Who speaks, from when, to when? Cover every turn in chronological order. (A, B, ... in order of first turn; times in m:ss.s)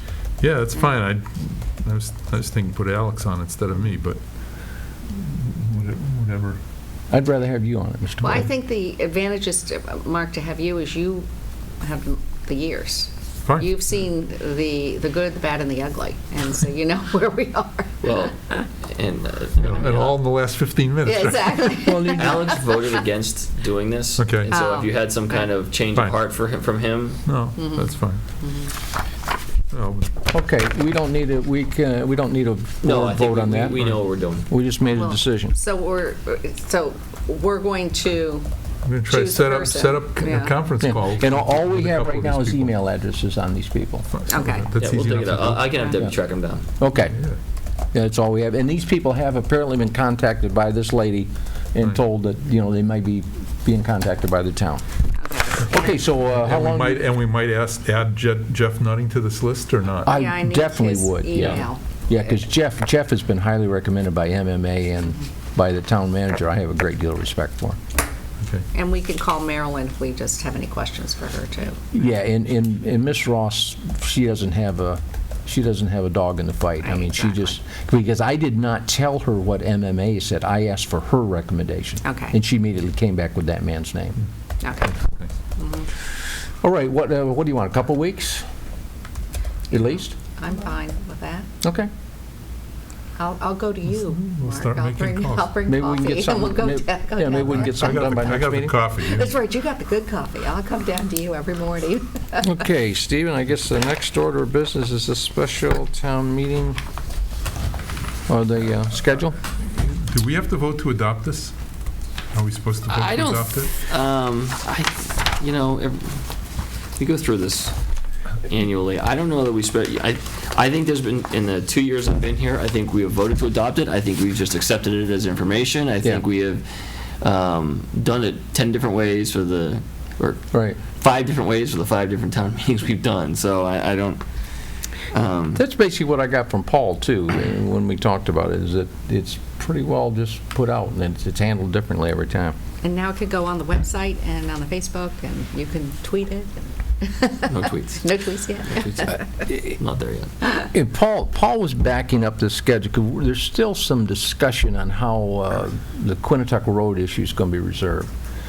0:00.4-0:04.2 A
0:05.0-0:06.6 A
0:07.1-0:08.5 B
0:08.2-0:11.3 C
0:11.8-0:18.6 C
0:18.0-0:20.2 D
0:19.6-0:21.8 A
0:21.0-0:22.6 C
0:21.8-0:22.6 B
0:22.2-0:27.2 D
0:24.2-0:24.5 A
0:24.5-0:25.4 C
0:27.3-0:28.2 A
0:27.6-0:28.7 C
0:29.7-0:30.2 A
0:30.3-0:33.8 B
0:32.8-0:34.5 D
0:34.5-0:35.6 B
0:34.8-0:38.5 C
0:38.9-0:42.7 A
0:39.1-0:40.6 C
0:40.8-0:44.1 B
0:44.1-0:45.8 A
0:44.3-0:44.7 C
0:44.8-0:46.7 D
0:46.8-0:47.2 B
0:47.9-0:54.8 B
0:55.2-0:55.9 C
0:55.6-0:57.0 B
0:56.3-1:00.1 A
1:00.0-1:07.8 B
1:00.0-1:02.3 C
1:08.4-1:08.7 A
1:08.7-1:11.9 C
1:11.9-1:24.2 B
1:16.8-1:17.6 C
1:22.0-1:22.4 C
1:24.6-1:25.0 C
1:25.6-1:25.9 C
1:26.6-1:28.4 B
1:29.7-1:30.2 B
1:29.7-1:31.5 C
1:31.6-1:31.9 B
1:33.2-1:38.3 C
1:33.9-1:35.6 A
1:35.7-1:38.8 B
1:37.6-1:39.3 A
1:39.0-1:42.6 C
1:42.4-1:46.8 B
1:48.3-1:49.4 B
1:49.6-1:51.6 A
1:52.3-1:53.8 A
1:52.9-1:56.3 D
1:57.0-1:57.8 D
1:58.4-2:14.2 D
2:10.5-2:10.8 B
2:15.1-2:15.6 D
2:15.5-2:22.6 B
2:22.8-2:29.2 C
2:27.5-2:28.1 D
2:28.6-2:30.3 D
2:29.5-2:29.8 B
2:30.5-2:38.1 B